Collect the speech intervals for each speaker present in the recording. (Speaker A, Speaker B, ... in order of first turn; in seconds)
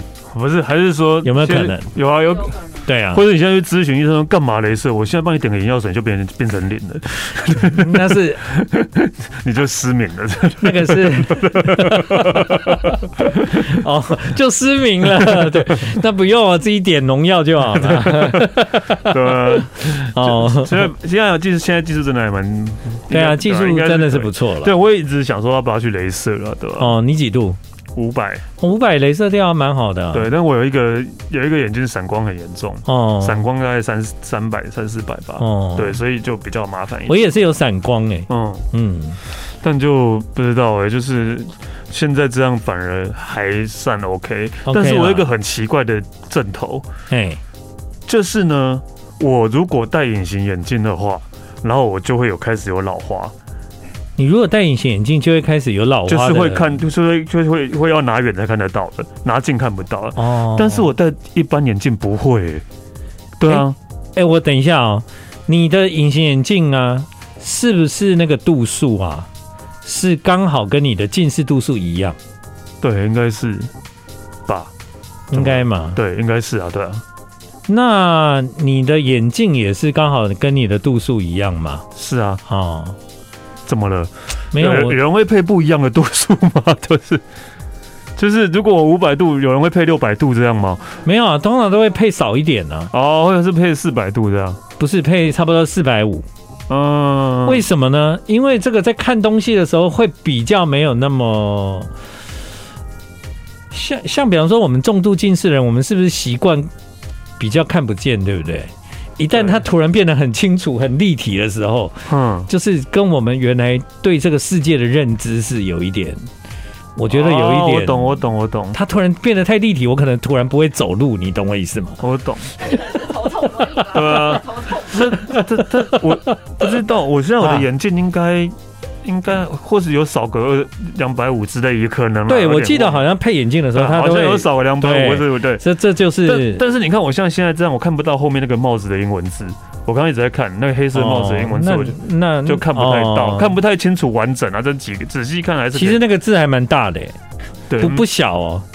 Speaker A: 0.3-2.5, 3.1-13.8, 15.3-15.6, 17.7-26.9, 27.9-28.4, 30.1-37.3, 38.3-38.7, 39.6-46.9, 48.1-53.3, 56.1-62.6, 63.4-63.8, 72.8-73.7, 75.3-77.0, 82.0-82.4, 83.7-87.2, 88.2-91.0, 92.9-94.6, 96.7-97.7, 109.3-109.6, 112.1-112.5, 117.1-118.8, 122.0-122.5, 123.9-133.1, 133.7-135.6, 136.2-146.0, 147.7-148.1
Speaker B: 1.2-1.9, 2.9-3.2, 7.7-8.4, 10.6-20.9, 23.1-24.7, 26.8-27.6, 28.6-30.3, 32.9-33.4, 35.4-36.0, 37.1-39.2, 44.7-45.3, 47.1-47.4, 54.2-56.7, 60.2-60.9, 63.5-69.3, 69.8-72.2, 75.3-76.0, 77.7-81.9, 82.5-83.0, 84.5-85.0, 91.0-92.9, 94.8-96.3, 97.5-101.9, 103.7-106.7, 107.4-116.3, 117.0-118.2, 118.7-122.0, 123.7-124.4, 125.1-125.4, 127.4-127.7, 132.3-136.6, 140.9-143.6, 145.7-147.2, 147.8-148.7
Speaker C: 2.3-2.8, 122.6-125.1